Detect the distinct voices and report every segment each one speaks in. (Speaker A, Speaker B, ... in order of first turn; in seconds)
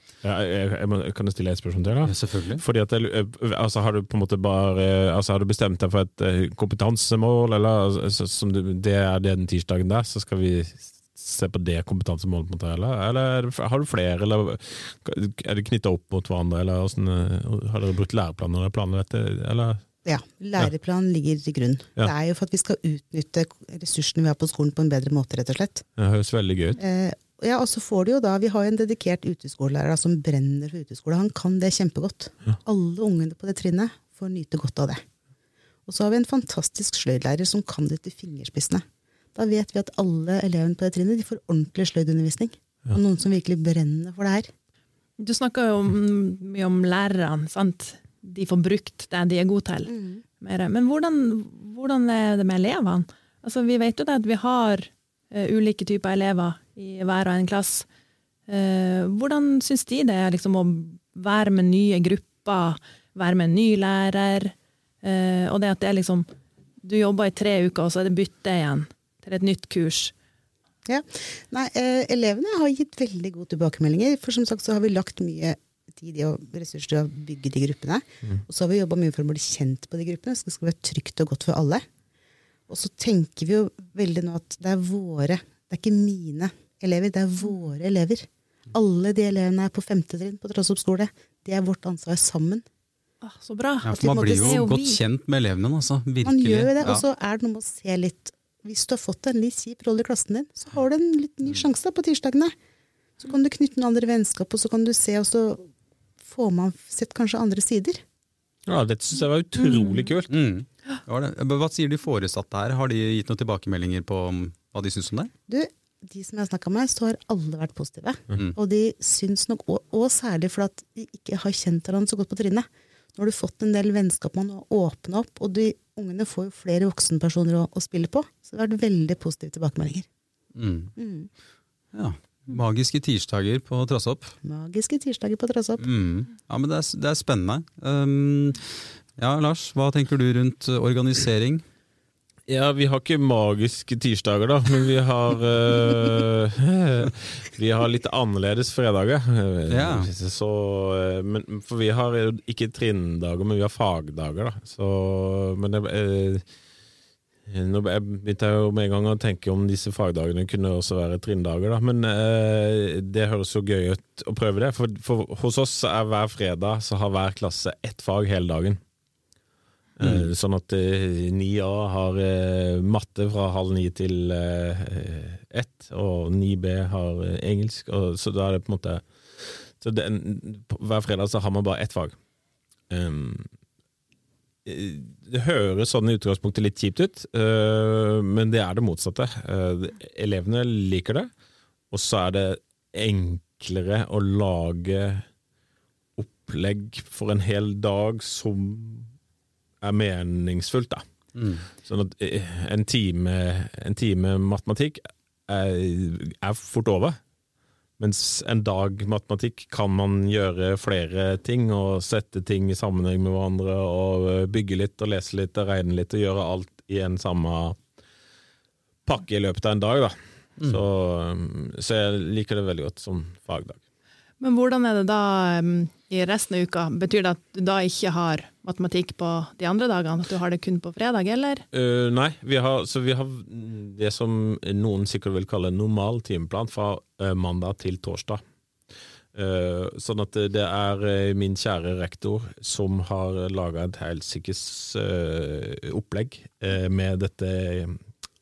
Speaker A: 0.2-19.8, 26.0-26.8, 108.7-110.3, 142.5-156.4, 157.4-168.8, 170.0-182.2, 182.9-183.5, 184.6-191.3, 191.9-195.2, 196.2-199.1, 199.8-201.0, 201.8-207.2, 208.0-217.8, 219.1-223.8, 231.7-238.4, 239.3-248.0
Speaker B: 2.0-2.6, 93.8-97.0, 110.3-115.3, 130.5-130.9, 131.9-134.3, 135.8-141.6, 149.7-150.1, 170.0-170.3, 201.3-201.7
Speaker C: 20.0-25.8, 26.8-35.0, 35.9-38.8, 39.3-44.5, 49.9-50.2, 70.9-81.8, 82.7-92.6, 93.9-94.6, 96.2-102.5, 103.2-105.6, 106.2-108.0, 115.5-130.1, 131.0-131.3, 134.4-135.8
Speaker D: 45.2-57.9, 58.5-66.3, 66.8-70.1, 93.2-95.0, 109.6-110.0, 224.4-231.7